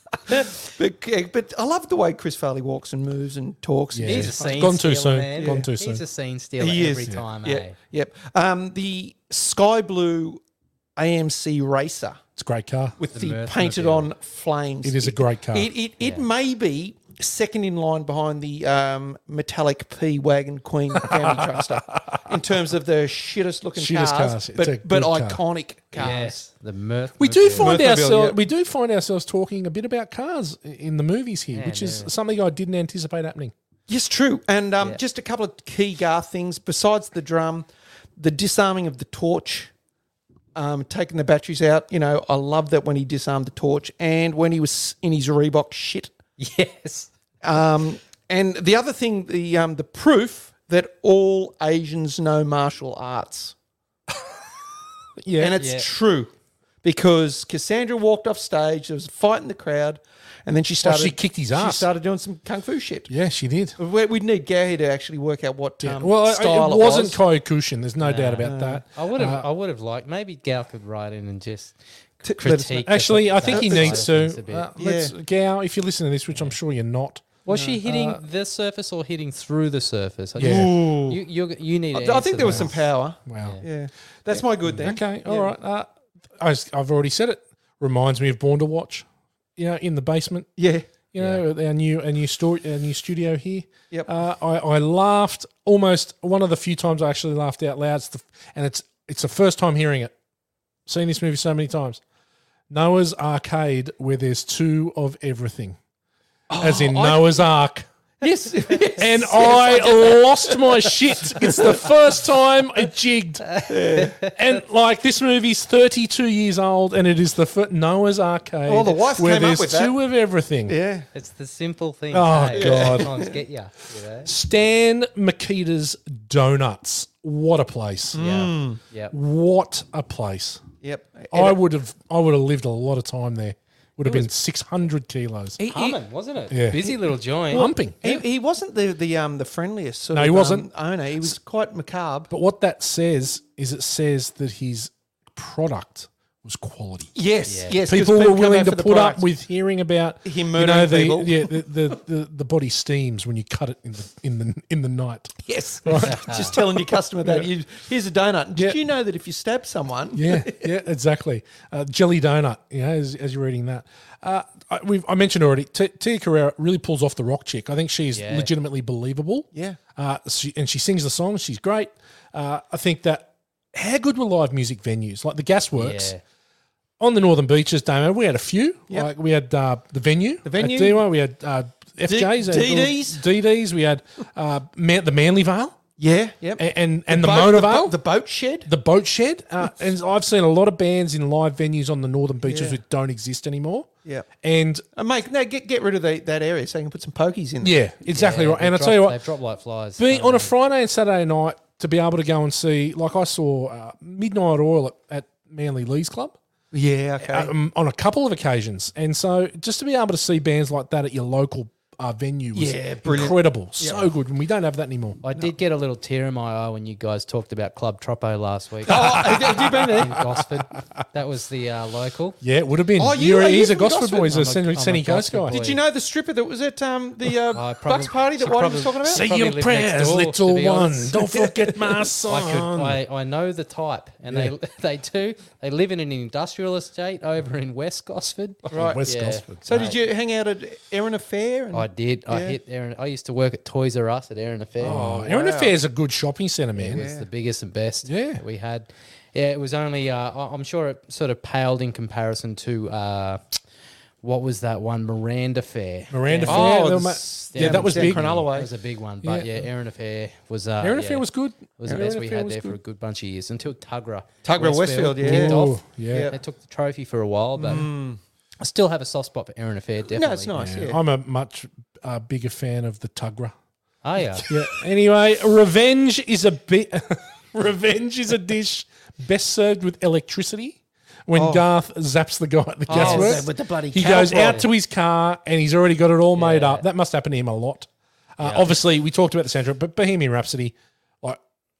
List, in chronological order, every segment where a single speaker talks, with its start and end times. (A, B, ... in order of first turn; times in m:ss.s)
0:00.3-0:04.6 A
0:03.9-0:06.0 B
0:04.0-0:07.7 C
0:05.4-0:05.7 A
0:06.6-0:10.4 A
0:11.0-0:12.2 A
0:12.4-0:12.9 B
0:13.0-0:26.3 A
0:13.1-0:14.1 C
0:14.8-0:15.7 B
0:21.0-0:22.1 B
0:23.8-0:25.4 B
0:25.9-0:27.8 C
0:27.2-0:33.5 B
0:27.6-0:28.4 A
0:31.5-0:32.1 C
0:33.9-0:39.7 A
0:40.5-0:46.1 A
0:46.4-0:47.1 C
0:47.4-0:53.5 A
0:55.2-0:55.6 B
0:55.4-0:56.3 A
0:55.6-0:55.9 C
0:56.8-1:03.1 A
1:00.8-1:01.8 B
1:03.1-1:03.8 B
1:03.8-1:07.2 A
1:05.8-1:09.4 B
1:08.0-1:14.7 C
1:08.4-1:08.8 A
1:12.2-1:12.8 A
1:12.7-1:18.2 B
1:13.4-1:14.0 A
1:14.8-1:15.1 A
1:17.4-1:22.9 C
1:17.5-1:17.8 A
1:20.4-1:20.7 B
1:20.4-1:21.2 A
1:21.9-1:25.5 A
1:23.3-1:23.5 B
1:24.7-1:29.0 B
1:29.6-1:30.5 B
1:30.6-1:30.8 A
1:31.1-1:40.1 B
1:31.2-1:31.4 C
1:40.9-1:42.0 B
1:42.7-1:45.8 B
1:46.5-1:47.4 A
1:46.6-1:47.8 B
1:48.2-1:51.8 A
1:49.0-2:00.7 B
1:53.6-1:54.3 C
1:53.7-1:54.2 A
1:58.6-2:00.0 A
2:00.7-2:01.1 A
2:01.1-2:04.3 C
2:02.1-2:03.1 B
2:02.5-2:03.3 A
2:04.2-2:08.2 B
2:08.1-2:08.8 A
2:08.2-2:09.1 C
2:09.1-2:10.6 B
2:10.8-2:11.6 A
2:11.3-2:15.6 B
2:15.6-2:16.0 A
2:15.7-2:17.7 C
2:16.5-2:16.9 B
2:17.5-2:18.2 B
2:18.0-2:22.3 A
2:20.1-2:20.7 B
2:22.3-2:27.1 B
2:27.1-2:29.2 A
2:27.5-2:27.8 C
2:27.8-2:37.5 B
2:30.2-2:31.6 A
2:35.4-2:40.7 A
2:36.0-2:36.5 C
2:40.1-2:56.1 B
2:48.1-2:48.5 C
2:49.5-2:49.8 A
2:55.8-2:56.2 C
2:57.0-3:05.8 B
3:00.4-3:01.0 A
3:02.1-3:03.2 A
3:06.0-3:08.7 A
3:06.6-3:07.9 B
3:08.6-3:13.9 B
3:12.4-3:12.8 A
3:14.4-3:14.8 B
3:14.9-3:17.7 A
3:17.6-3:19.2 B
3:18.1-3:20.5 C
3:20.0-3:26.4 B
3:26.7-3:27.5 A
3:27.2-3:35.2 B
3:32.5-3:34.1 A
3:35.2-3:42.4 C
3:38.8-3:40.4 B
3:38.9-3:40.1 A
3:42.4-3:45.6 B
3:43.0-3:44.3 A
3:44.3-3:45.8 C
3:45.5-3:49.2 A
3:47.5-3:51.3 C
3:49.0-3:53.0 B
3:52.2-4:00.0 C
3:54.3-3:54.5 B
3:58.7-3:59.0 A
3:58.7-3:59.7 B
3:59.6-4:02.6 A
4:01.7-4:05.3 C
4:04.8-4:07.0 B
4:04.8-4:05.7 A
4:06.8-4:13.6 C
4:06.9-4:07.2 A
4:08.0-4:08.4 B
4:14.2-4:16.7 C
4:16.1-4:18.4 B
4:16.5-4:18.7 A
4:17.5-4:21.2 C
4:19.2-4:19.7 B
4:20.8-4:22.8 B
4:21.8-4:27.9 C
4:24.4-4:26.4 A
4:25.2-4:26.3 B
4:27.6-4:28.2 A
4:28.6-4:30.5 C
4:30.1-4:31.0 A
4:30.6-4:33.5 B
4:34.0-4:34.5 C
4:34.4-4:51.4 B
4:41.3-4:41.6 A
4:42.9-4:44.6 A
4:42.9-4:43.5 C
4:44.1-4:44.6 C
4:46.4-4:46.9 C
4:48.4-4:48.7 C